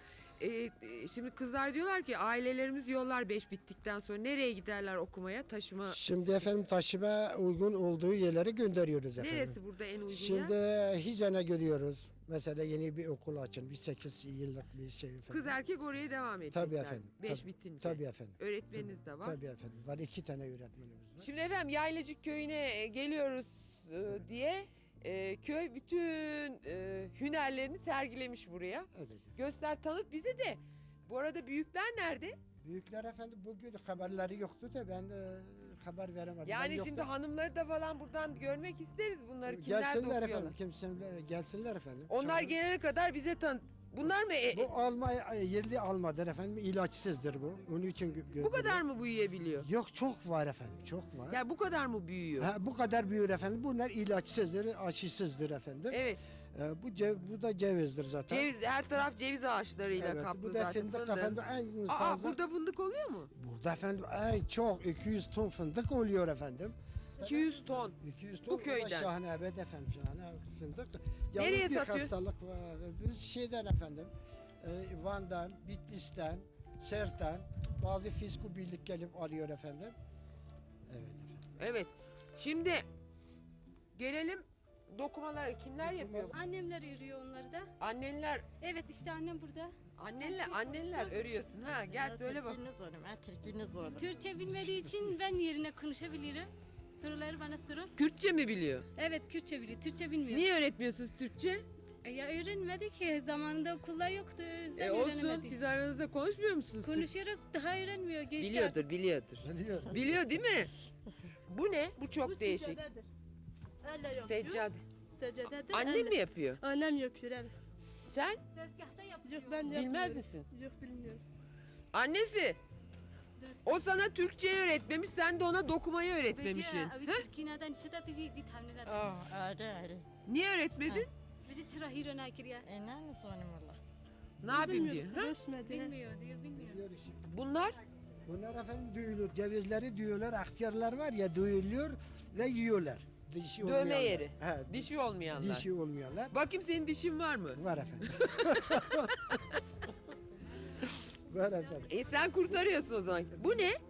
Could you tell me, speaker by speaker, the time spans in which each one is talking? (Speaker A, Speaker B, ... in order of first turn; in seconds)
Speaker A: 0.4-6.6, 9.2-10.5, 15.3-19.4, 21.2-32.4, 36.4-40.5, 42.1-44.7, 48.4-49.7, 51.3-52.5, 55.9-56.2, 58.3-63.3, 67.2-68.0, 68.5-69.1, 71.4-72.1, 81.6-82.8, 83.9-86.3, 87.8-88.4, 90.0-92.6, 98.0-98.8, 100.3-101.6, 104.8-107.1, 108.4-110.7, 111.5-112.8, 114.2-114.8, 115.7-116.6, 117.8-118.4, 119.7-120.5, 121.9-122.6, 123.6-127.2, 130.2-131.1, 134.4-135.3, 137.2-137.8, 143.6-145.6, 146.3-148.9, 151.9-153.8
Speaker B: 5.9-9.6, 10.1-15.5, 16.5-21.2, 28.9-29.3, 32.6-37.1, 39.5-42.5, 44.5-48.8, 49.6-51.4, 52.4-58.5, 60.0-62.4, 63.3-80.0, 80.9-81.5, 85.8-86.3, 109.4-110.2, 136.6-137.2, 138.2-146.3, 147.5-149.4, 150.8-151.9
Speaker C: 86.3-87.7, 88.6-91.2, 94.0-97.9, 98.9-100.5, 102.0-105.6, 106.8-108.9, 118.5-119.9, 126.3-129.2, 131.4-132.6, 135.7-136.8
Speaker D: 92.5-93.7, 128.9-129.9, 132.7-133.6
Speaker E: 112.0-113.0, 113.8-114.7, 115.2-117.5, 119.2-121.2, 134.5-135.9